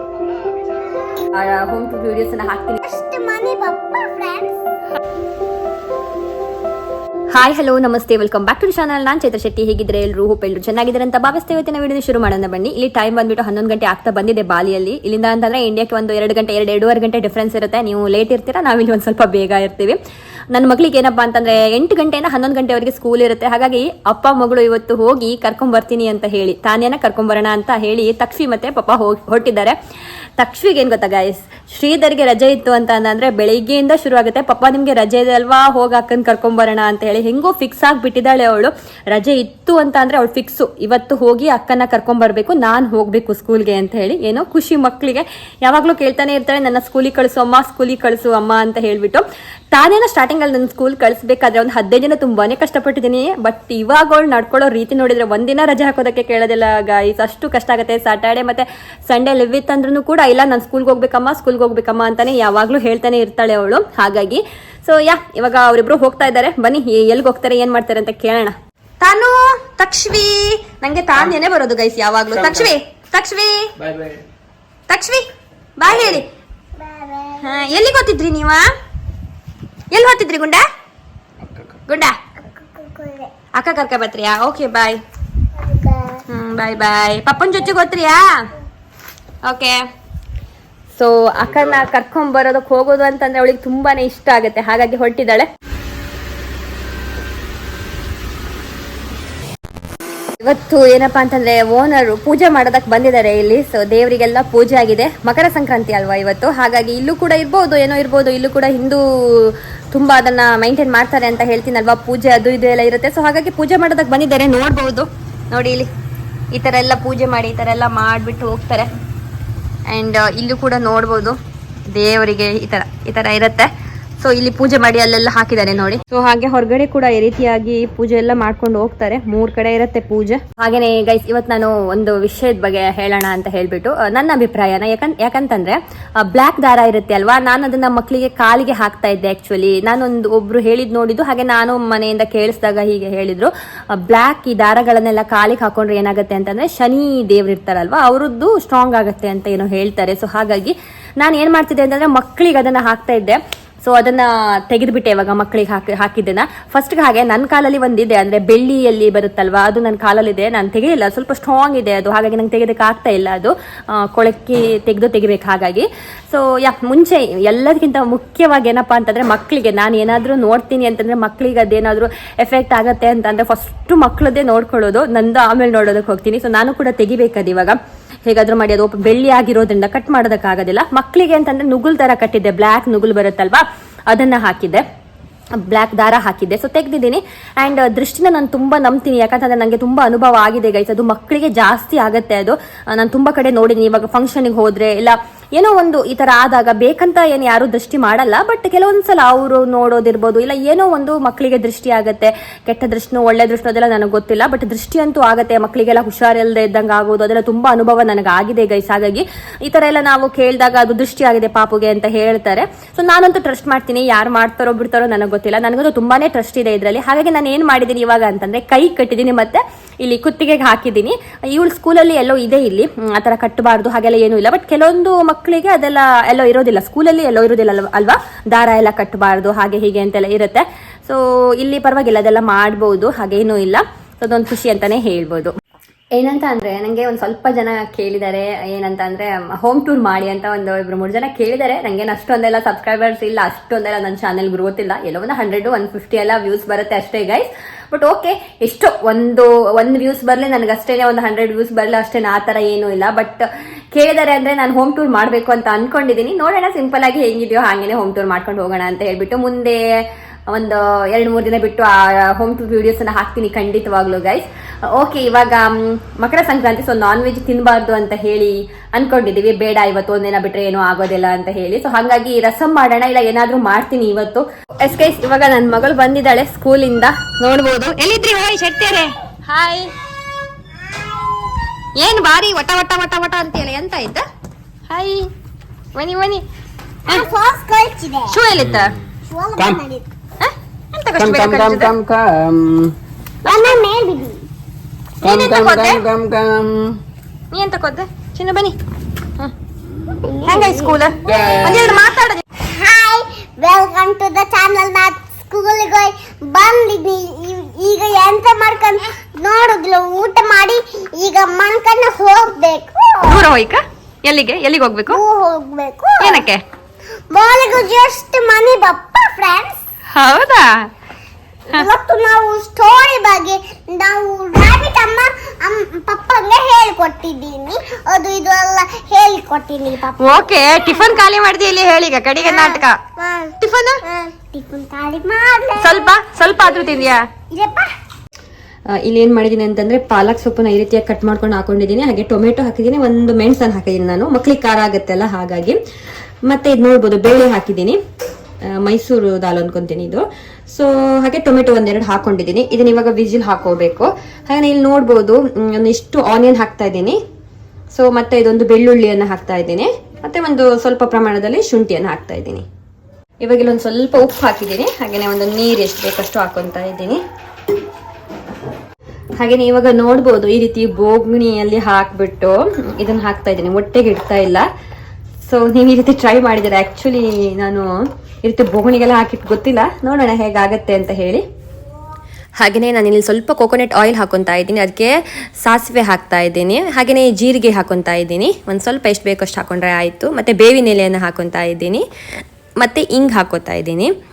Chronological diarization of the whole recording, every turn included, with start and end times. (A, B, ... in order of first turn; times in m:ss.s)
0:01.2-0:02.8 A
0:02.8-0:04.6 B
0:07.3-0:20.0 A
0:20.5-0:29.8 A
0:30.4-1:13.7 A
1:14.9-1:15.2 A
1:15.8-1:16.3 A
1:16.7-1:17.6 B
1:17.4-1:18.7 A
1:19.9-1:20.6 A
1:21.9-1:22.2 A
1:22.6-1:23.3 B
1:23.5-1:25.0 A
1:25.6-1:26.2 B
1:26.3-1:28.5 A
1:29.4-1:29.8 A
1:30.9-1:35.5 A
1:40.4-1:55.9 A
1:56.5-1:58.9 A
1:59.9-2:01.4 A
2:01.9-3:04.8 A
3:05.5-3:55.5 A
3:56.1-4:39.9 A
4:42.0-4:44.2 A
4:44.9-4:45.3 A
4:45.9-4:46.4 A
4:47.1-4:48.4 B
4:48.3-4:49.0 A
4:49.3-4:50.1 B
4:50.4-4:51.9 A
4:51.2-4:52.9 C
4:53.4-4:53.8 A
4:53.4-4:54.4 B
4:55.2-4:56.0 A
4:55.2-4:57.0 C
4:57.5-4:58.8 A
5:00.2-5:02.0 B
5:00.4-5:02.4 A
5:01.3-5:01.7 C
5:02.6-5:13.4 B
5:13.2-5:15.2 A
5:15.1-5:16.5 B
5:16.2-5:16.6 A
5:17.3-5:19.8 B
5:20.1-5:20.9 A
5:21.7-5:31.2 B
5:30.2-5:33.0 A
5:32.4-5:37.0 B
5:33.6-5:34.0 A
5:35.8-5:37.2 A
5:37.5-5:37.9 B
5:38.9-5:45.8 A
5:46.4-5:48.0 A
5:48.7-5:57.2 A
5:57.9-6:02.6 A
6:03.4-6:07.2 A
6:09.4-6:14.7 A
6:15.4-6:21.4 A
6:22.6-6:32.0 A
6:32.8-6:34.1 A